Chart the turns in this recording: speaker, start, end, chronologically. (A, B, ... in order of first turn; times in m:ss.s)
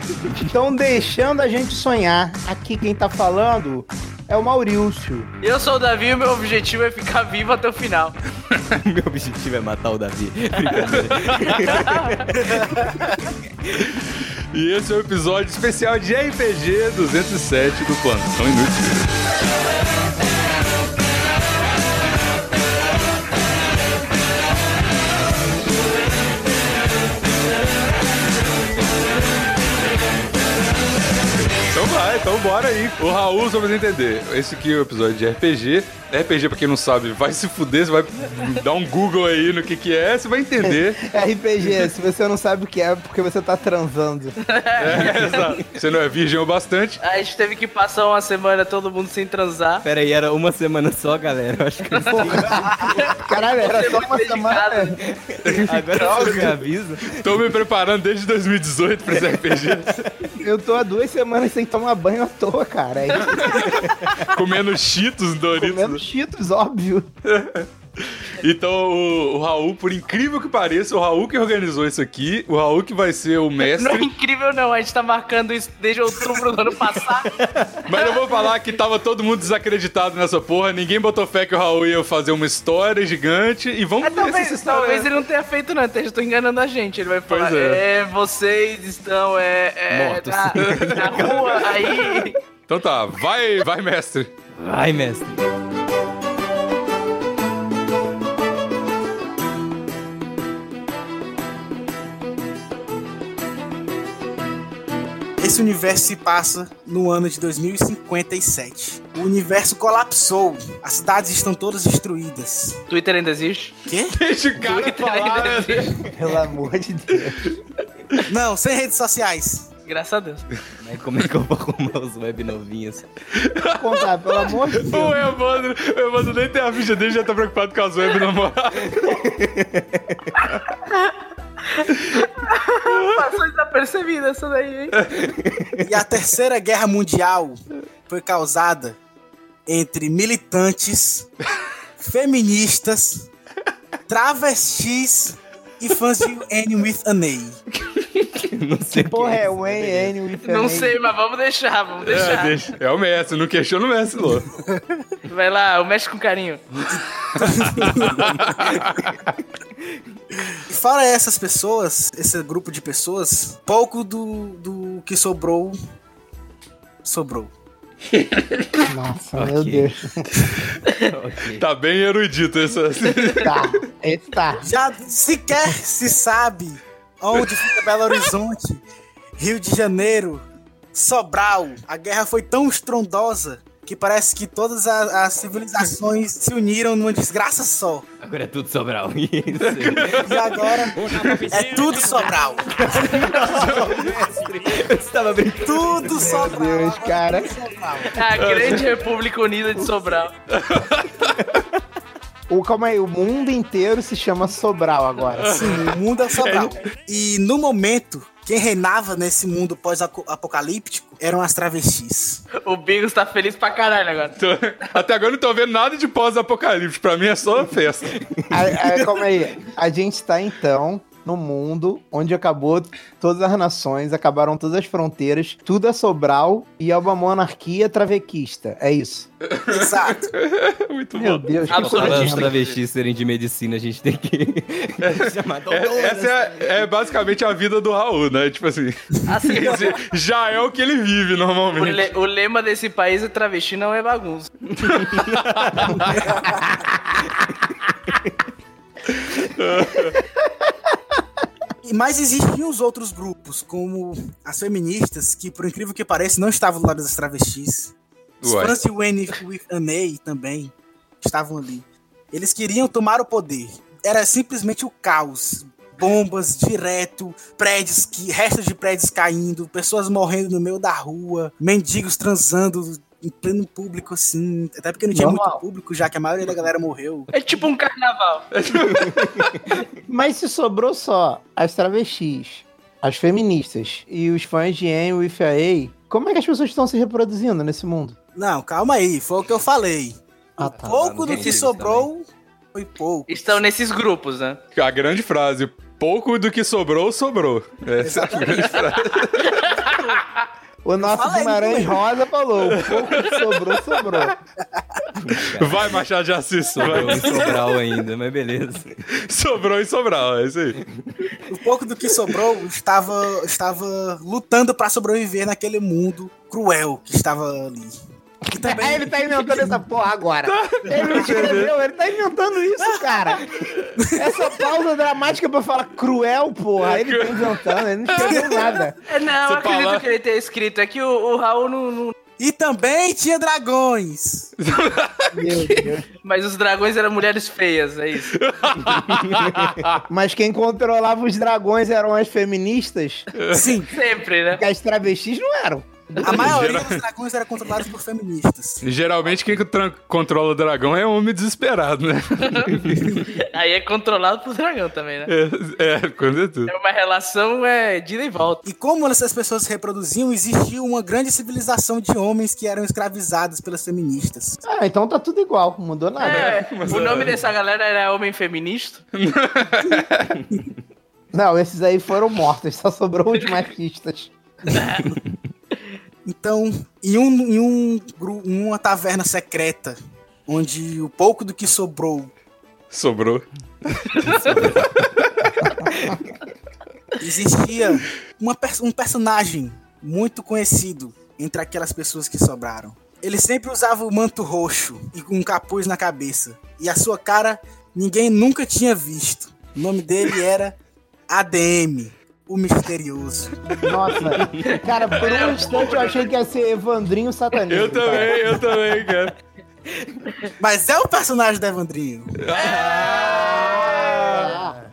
0:00.4-0:05.3 A
0:05.4-0:08.2 B
0:08.8-0:12.4 C
0:10.8-0:11.8 D
0:11.6-0:12.2 B
0:12.3-0:12.8 E
0:12.7-0:13.2 D
0:13.8-0:19.2 D
0:31.7-0:41.1 D
0:40.6-0:44.4 A
0:44.4-0:45.5 B
0:44.8-0:47.0 D
0:44.9-0:45.7 C
0:47.0-0:49.8 B
0:49.8-0:53.2 C
0:52.0-0:52.4 B
0:52.1-0:55.0 A
0:53.0-0:55.0 B
0:55.0-0:57.3 C
0:55.4-0:55.8 D
0:55.9-0:56.5 B
0:57.1-1:00.1 D
1:00.4-1:03.7 A
1:03.1-1:03.5 B
1:03.4-1:06.0 D
1:03.7-1:04.2 C
1:05.6-1:07.1 A
1:07.2-1:14.1 D
1:13.6-1:17.4 B
1:17.2-1:17.8 C
1:17.9-1:25.1 D
1:17.9-1:18.2 B
1:24.0-1:32.4 B
1:27.3-1:27.8 D
1:29.9-1:32.2 C
1:30.6-1:31.4 D
1:32.7-1:34.3 D
1:34.6-1:35.4 C
1:45.4-1:52.8 E
1:52.9-1:53.7 B
1:53.9-1:54.2 E
1:54.2-1:56.1 D
1:54.6-1:55.9 B
1:56.1-1:57.5 A
1:58.3-1:59.7 E
1:59.9-2:00.4 B
2:00.8-2:03.0 C
2:03.3-2:09.2 D
2:03.7-2:05.2 A
2:08.9-2:10.4 C
2:10.9-2:15.0 B
2:12.9-2:13.3 D
2:15.2-2:15.8 C
2:15.8-2:19.0 E
2:19.7-2:21.3 E
2:22.0-2:23.3 E
2:24.1-2:27.6 E
2:28.0-2:28.2 D
2:28.4-2:30.1 C
2:28.9-2:31.0 A
2:30.4-2:32.6 B
2:32.0-2:34.5 D
2:35.3-2:36.6 B
2:36.9-2:38.7 E
2:37.2-2:39.3 D
2:40.7-2:45.8 E
2:47.0-2:47.5 E
2:48.1-2:48.6 D
2:48.8-2:50.3 A
2:49.4-2:49.9 C
2:51.1-2:51.6 C
2:51.6-2:53.8 D
2:53.4-2:54.7 A
2:54.6-2:58.8 E
2:59.4-3:08.1 E
3:08.2-3:10.4 C
3:09.6-3:11.6 D
3:10.2-3:13.2 E
3:11.1-3:11.7 C
3:11.6-3:12.0 B
3:12.7-3:16.4 C
3:13.0-3:13.5 B
3:13.4-3:14.2 D
3:15.6-3:18.2 E
3:16.0-3:17.6 A
3:18.1-3:20.3 B
3:18.3-3:18.8 D
3:20.5-3:21.6 D
3:22.5-3:25.8 A
3:25.4-3:25.8 D
3:25.5-3:32.4 E
3:26.4-3:26.8 D
3:32.6-3:34.4 B
3:34.4-3:38.2 D
3:38.1-3:38.5 C
3:38.5-3:49.3 A
3:49.5-3:52.2 D
3:49.7-3:50.3 E
3:51.2-3:52.5 A
3:51.7-3:52.8 B
3:51.8-3:56.9 C
3:55.0-4:02.1 D
3:59.3-4:00.0 B
4:01.7-4:04.7 B
4:04.8-4:06.3 D
4:04.9-4:06.0 C
4:06.0-4:06.5 E
4:06.4-4:07.0 A
4:09.2-4:10.2 D
4:11.8-4:37.3 E
4:18.4-4:18.8 D
4:35.1-4:35.6 A
4:37.3-4:38.5 B
4:38.5-4:39.6 D
4:38.7-4:39.8 C
4:40.1-4:48.2 A
4:48.4-4:53.7 E
4:50.6-4:51.1 A
4:50.7-4:52.1 C
4:51.3-4:51.6 B
4:53.3-4:54.6 B
4:54.8-4:59.7 D
4:58.0-5:00.2 E
4:59.4-5:00.0 B
5:00.8-5:04.4 A
5:01.1-5:02.0 B
5:02.7-5:04.3 D
5:05.2-5:05.9 C
5:05.3-5:07.6 D
5:06.8-5:09.0 C
5:09.1-5:10.8 D
5:11.5-5:18.0 E
5:18.5-5:19.8 E
5:18.6-5:23.5 A
5:20.5-5:21.7 D
5:22.8-5:23.4 E
5:23.6-5:23.9 D
5:24.0-5:24.4 E
5:24.1-5:29.0 A
5:26.8-5:28.7 D
5:28.2-5:28.8 E
5:29.1-5:32.2 B
5:29.4-5:30.1 D
5:32.4-5:34.5 E
5:34.6-5:35.6 D
5:35.3-5:36.0 A
5:36.2-5:38.4 B
5:38.3-5:40.0 D
5:39.4-5:39.7 C
5:40.1-5:43.3 A
5:43.3-5:43.7 D
5:43.5-5:43.9 E
5:43.9-5:44.6 B
5:44.5-5:46.5 A
5:46.2-5:48.8 E
5:46.3-5:47.0 D
5:48.8-5:53.2 D
5:52.4-5:55.3 B
5:55.3-5:56.7 D
5:56.7-5:58.6 B
5:58.6-6:04.6 E
6:04.6-6:06.6 A
6:06.2-6:09.0 B
6:06.2-6:07.5 D
6:09.1-6:10.5 D
6:11.3-6:14.3 A
6:14.7-6:15.2 E
6:14.7-6:15.1 B
6:16.3-6:22.3 E
6:22.9-6:25.8 D
6:24.2-6:24.4 B
6:24.2-6:25.1 C
6:27.2-6:40.8 E
6:41.3-6:43.7 E
6:43.8-6:48.6 A
6:44.4-6:44.7 C
6:44.7-6:46.3 B
6:47.7-6:49.3 D
6:49.9-6:50.3 C
6:50.6-6:52.4 E
6:52.4-6:54.6 D
6:52.5-6:53.7 C
6:52.8-6:53.3 B
6:53.5-6:54.8 A